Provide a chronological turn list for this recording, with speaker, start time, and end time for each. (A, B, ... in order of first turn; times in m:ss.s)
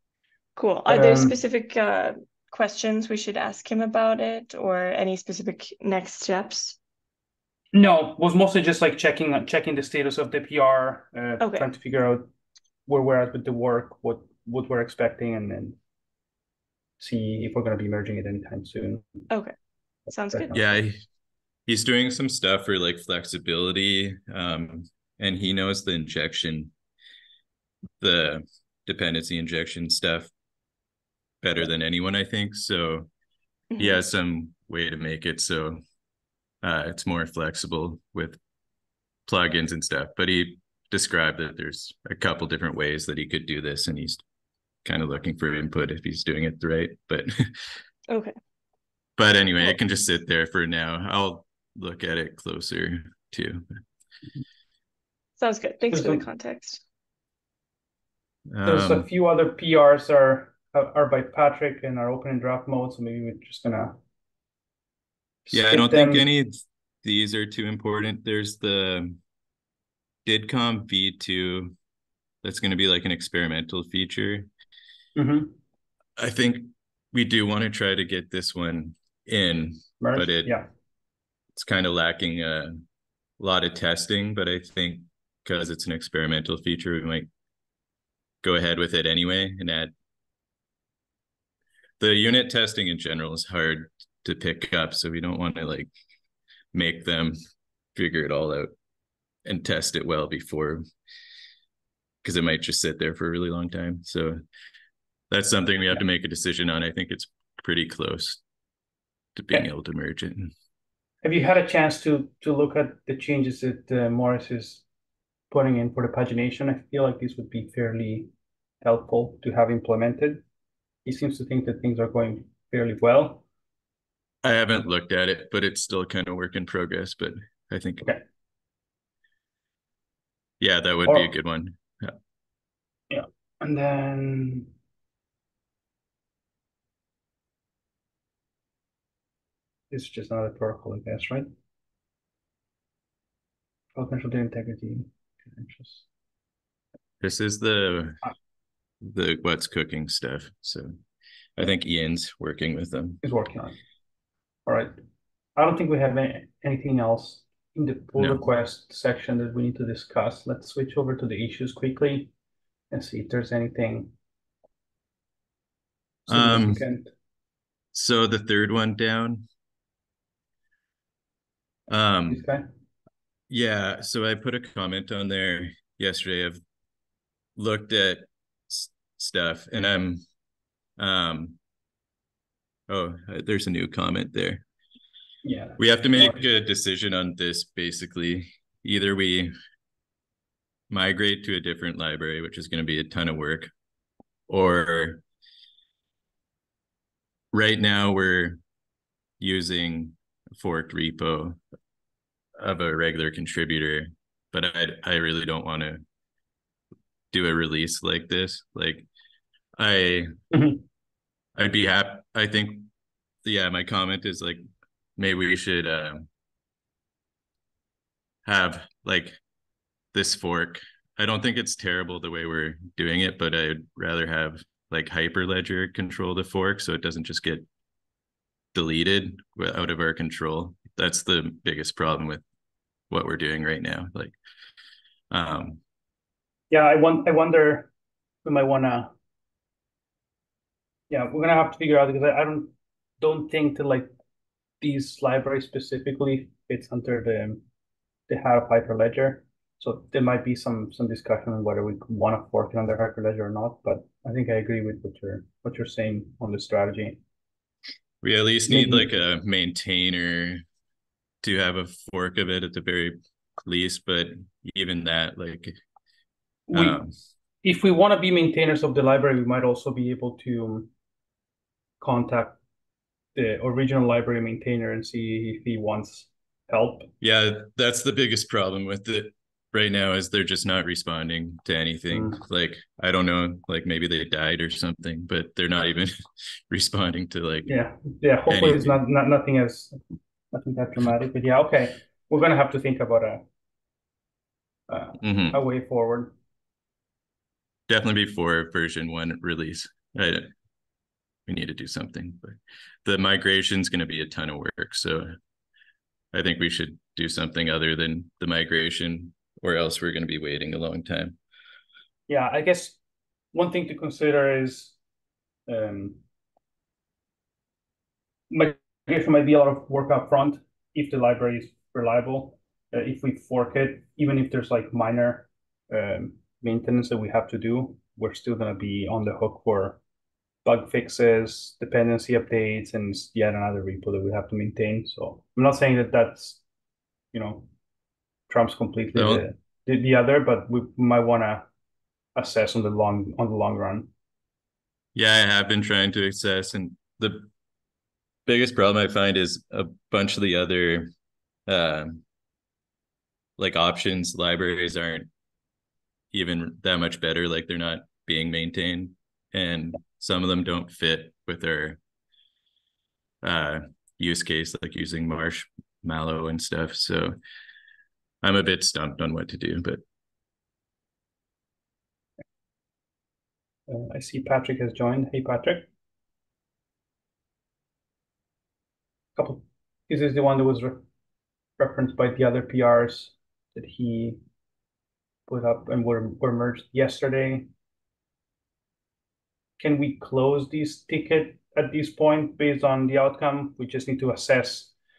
0:00.6-0:06.8 A
0:00.9-0:01.4 B
0:07.7-0:12.3 B
0:11.4-0:11.7 A
0:12.9-0:15.8 B
0:17.0-0:19.0 B
0:19.3-0:19.6 A
0:20.1-0:20.5 A
0:20.3-0:20.6 B
0:20.5-0:20.9 C
0:21.7-0:26.7 C
0:28.0-0:30.3 C
0:31.4-0:33.1 C
0:33.8-0:34.0 A
0:33.8-0:35.8 C
0:36.6-0:38.4 C
0:39.3-0:44.2 C
0:44.8-0:47.3 C
0:48.1-0:48.3 A
0:49.2-0:53.6 C
0:55.4-0:56.8 A
0:55.9-0:56.2 B
0:58.5-0:59.1 C
0:58.6-1:04.0 B
1:05.5-1:06.2 B
1:05.5-1:06.5 C
1:07.0-1:09.2 C
1:10.3-1:11.7 C
1:12.4-1:14.5 C
1:15.2-1:15.6 B
1:16.2-1:20.6 C
1:20.0-1:20.7 B
1:21.6-1:22.7 C
1:23.4-1:27.3 C
1:28.4-1:29.9 C
1:32.0-1:35.9 C
1:36.7-1:37.4 C
1:38.0-1:38.7 C
1:39.4-1:40.8 C
1:42.2-1:44.4 C
1:45.3-1:48.4 C
1:49.4-1:50.5 C
1:51.2-1:54.8 B
1:55.5-1:58.3 B
1:58.8-2:00.4 B
2:01.0-2:03.4 B
2:04.4-2:08.0 C
2:10.6-2:12.2 C
2:13.1-2:14.7 B
2:19.9-2:21.5 B
2:24.0-2:26.0 B
2:27.2-2:28.2 C
2:29.0-2:30.9 C
2:31.6-2:33.2 C
2:33.2-2:33.8 B
2:34.7-2:34.9 B
2:35.6-2:42.3 B
2:38.2-2:38.4 C
2:42.9-2:44.1 B
2:46.3-2:46.8 C
2:46.3-2:47.1 B
2:47.9-2:49.4 C
2:51.9-2:52.5 C
2:52.3-2:52.6 B
2:53.5-2:56.6 C
2:57.6-3:00.2 C
3:01.0-3:01.6 C
3:02.9-3:04.6 C
3:05.4-3:06.4 B
3:05.8-3:09.5 C
3:10.9-3:13.7 C
3:14.5-3:15.2 C
3:17.5-3:18.6 C
3:19.4-3:21.6 C
3:22.6-3:26.0 C
3:27.3-3:29.1 C
3:29.8-3:30.3 C
3:30.5-3:30.8 B
3:31.6-3:32.9 C
3:33.4-3:34.6 C
3:35.2-3:36.3 C
3:38.5-3:39.4 C
3:40.1-3:47.6 C
3:48.7-3:52.4 C
3:53.1-3:54.4 C
3:55.3-3:55.8 C
3:56.7-3:57.9 B
3:58.4-3:59.1 B
4:01.1-4:04.1 B
4:04.8-4:07.6 B
4:08.3-4:17.2 B
4:18.2-4:20.6 C
4:18.7-4:19.1 B
4:21.4-4:25.7 C
4:26.7-4:27.0 B
4:26.7-4:27.1 C
4:27.6-4:30.9 B
4:32.0-4:32.6 B
4:33.4-4:37.1 B
4:37.2-4:46.1 C
4:42.1-4:42.4 B
4:46.7-4:47.7 C
4:47.7-4:50.0 B
4:48.5-4:49.0 C
4:50.5-4:53.4 B
4:54.9-4:56.3 B
4:55.2-4:55.6 C
4:57.9-5:00.5 C
5:01.5-5:05.3 C
5:06.3-5:11.4 C
5:12.3-5:13.0 B
5:13.5-5:15.0 B
5:15.7-5:16.2 B
5:18.5-5:30.0 B
5:30.6-5:36.6 B
5:37.3-5:37.7 B
5:38.5-5:41.7 B
5:39.1-5:39.4 C
5:42.4-5:44.1 B
5:45.2-5:47.5 C
5:48.5-5:51.1 C
5:51.7-5:52.2 C
5:53.6-5:55.3 C
5:56.3-6:02.0 C
6:03.4-6:07.4 C
6:08.4-6:10.0 C
6:13.9-6:15.9 B
6:19.4-6:21.0 B
6:21.8-6:24.4 B
6:25.5-6:27.7 B
6:29.8-6:34.9 B